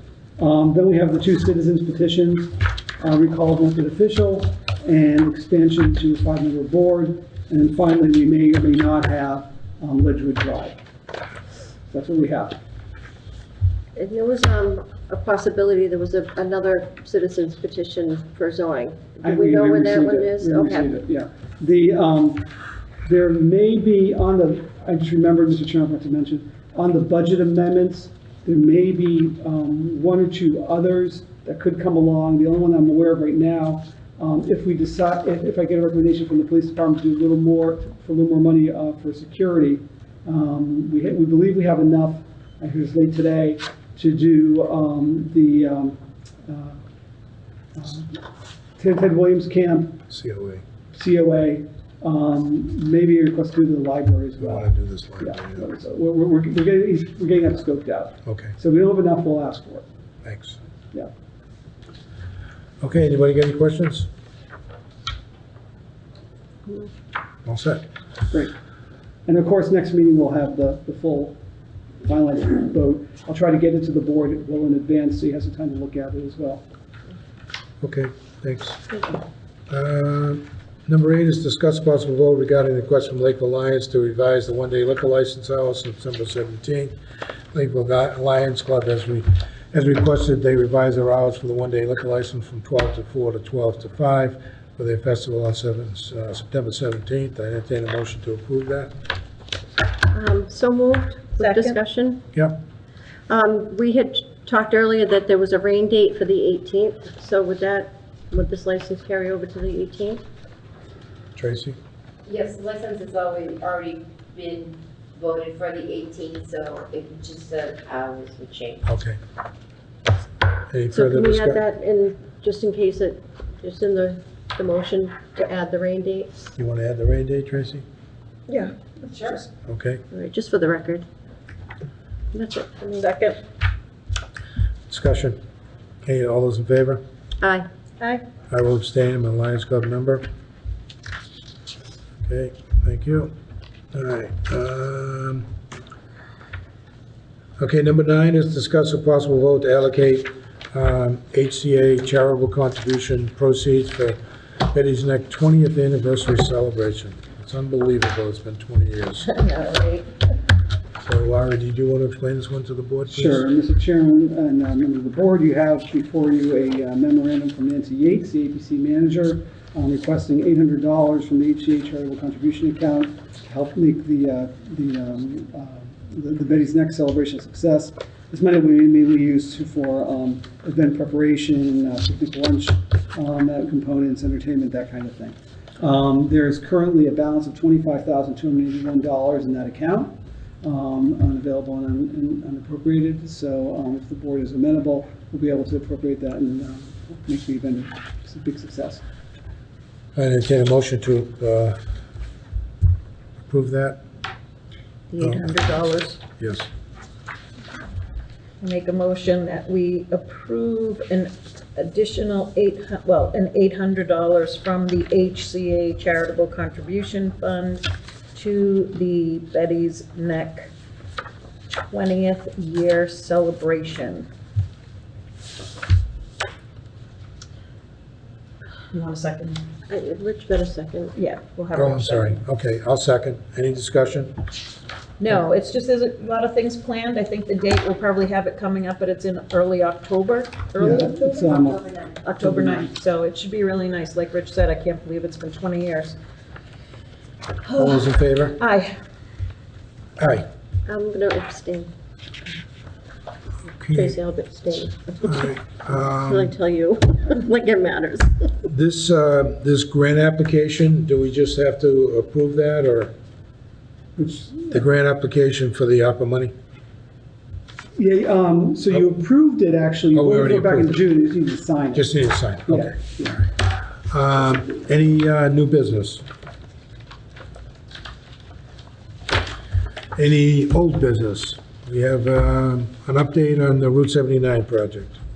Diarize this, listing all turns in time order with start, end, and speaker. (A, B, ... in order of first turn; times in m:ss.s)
0:00.4-0:10.8 A
0:11.9-0:12.6 A
0:14.0-0:20.9 B
0:19.2-0:22.5 A
0:23.0-0:46.8 A
0:47.7-0:48.2 A
0:48.8-0:50.0 A
0:50.1-0:50.6 C
0:50.9-0:59.9 A
0:54.4-0:55.7 C
0:58.3-0:58.6 C
1:00.2-1:00.6 C
1:02.8-1:04.1 C
1:07.4-1:07.8 C
1:09.2-1:11.4 A
1:12.0-1:16.6 A
1:17.8-1:18.8 C
1:19.7-1:27.0 C
1:27.5-1:38.9 C
1:40.1-1:42.2 B
1:41.4-1:41.8 D
1:42.3-1:42.6 C
1:43.3-1:50.2 B
1:51.4-1:51.8 C
1:52.3-1:58.8 E
1:58.8-1:59.2 C
2:00.7-2:01.6 C
2:00.9-2:06.5 B
2:06.6-2:07.8 C
2:08.5-2:09.5 D
2:09.7-2:10.0 C
2:10.1-2:11.0 B
2:12.3-2:13.1 B
2:13.0-2:13.4 D
2:14.9-2:15.4 C
2:16.0-2:17.0 C
2:17.4-2:17.7 B
2:18.5-2:20.2 C
2:22.2-2:23.3 C
2:23.9-2:25.5 C
2:27.6-2:39.3 C
2:39.2-2:40.1 D
2:41.0-2:43.4 C
2:43.1-3:19.0 A
3:20.2-3:21.8 C
3:23.4-3:24.0 C
3:25.1-3:26.2 D
3:25.2-3:25.5 C
3:26.4-3:26.7 C
3:28.6-3:40.7 D
3:41.9-3:44.3 D
3:48.9-3:49.6 D
3:49.9-3:51.2 B
3:51.2-3:52.4 D
3:51.7-3:54.4 C
3:55.2-4:01.6 D
4:00.8-4:02.9 A
4:02.2-4:06.2 D
4:07.6-4:08.9 D
4:07.8-4:08.6 C
4:10.2-4:10.5 C
4:10.8-4:11.9 B
4:13.8-4:14.2 C
4:13.9-4:15.4 B
4:15.2-4:16.5 C
4:16.2-4:18.5 B
4:18.6-4:23.1 C
4:24.2-4:24.8 A
4:24.7-4:26.5 C
4:28.0-4:32.1 A
4:30.1-4:31.0 C
4:31.9-4:33.0 C
4:32.6-4:33.5 A
4:34.1-4:36.2 C
4:40.2-4:45.2 C